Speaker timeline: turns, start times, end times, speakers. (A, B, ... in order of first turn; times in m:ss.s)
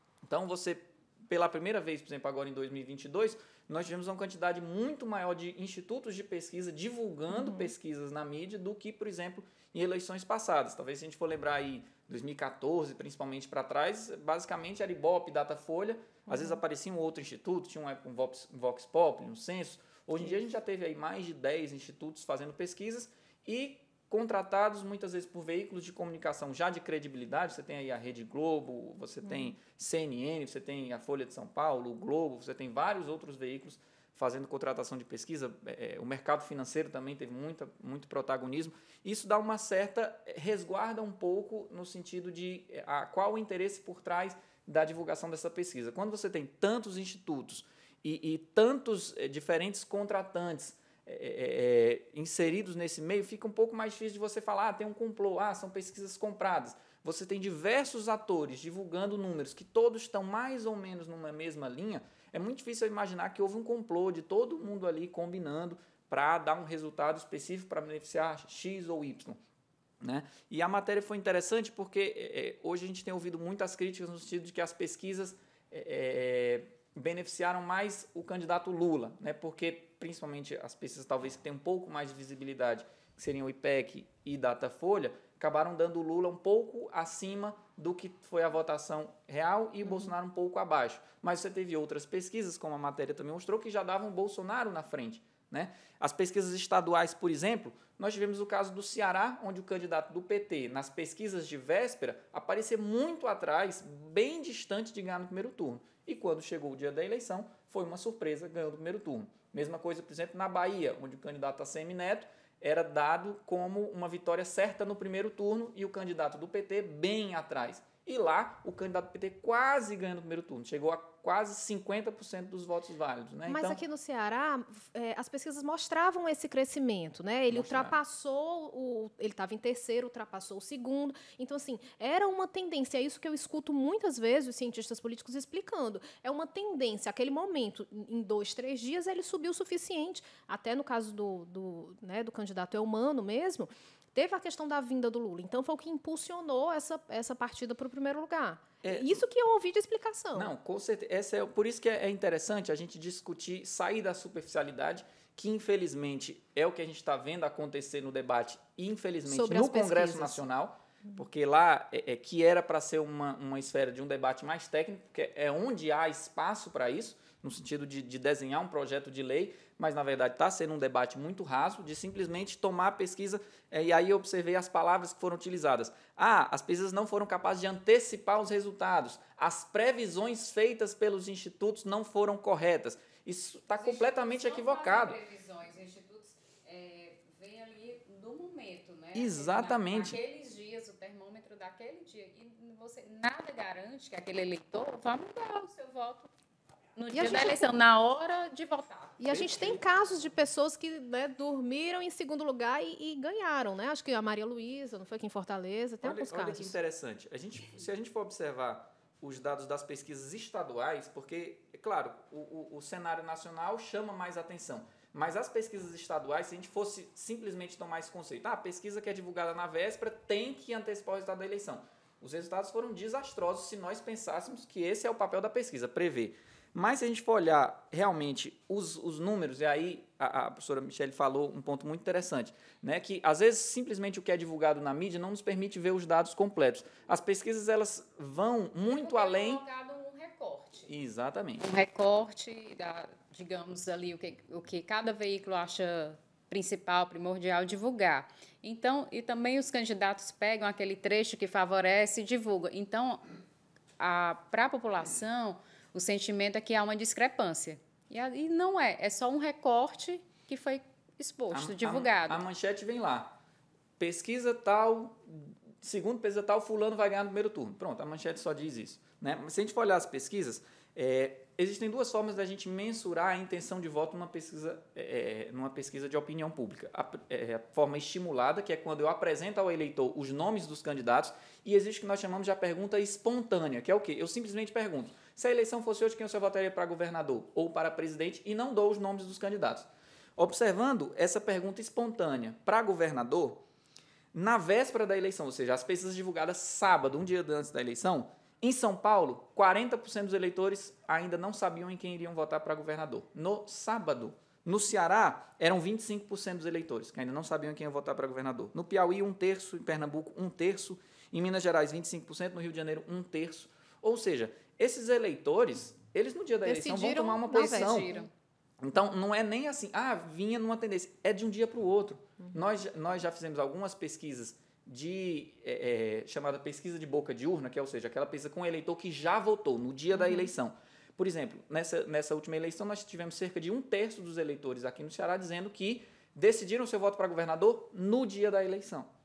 0:00.2-1:09.4 A
0:07.3-0:07.7 B
0:16.3-0:16.6 B
0:29.3-0:29.5 B
1:10.0-2:03.8 A
1:29.8-1:30.1 B
2:03.5-2:30.5 B
2:07.5-2:08.0 A
2:28.8-2:29.2 A
2:30.3-3:05.2 A
2:39.3-2:40.4 B
3:03.7-3:16.3 C
3:09.1-3:10.2 A
3:17.0-3:19.2 C
3:17.1-3:17.6 B
3:19.2-3:26.7 B
3:19.3-3:19.8 A
3:26.0-3:59.6 A
3:58.8-4:00.9 C
4:00.9-4:01.6 A
4:01.6-4:13.2 C
4:14.0-4:22.4 C
4:21.5-4:23.3 A
4:24.0-4:53.6 A
4:54.3-5:18.1 A
5:16.6-5:18.1 B
5:17.5-5:18.3 C
5:18.8-5:39.1 A
5:30.1-5:30.5 B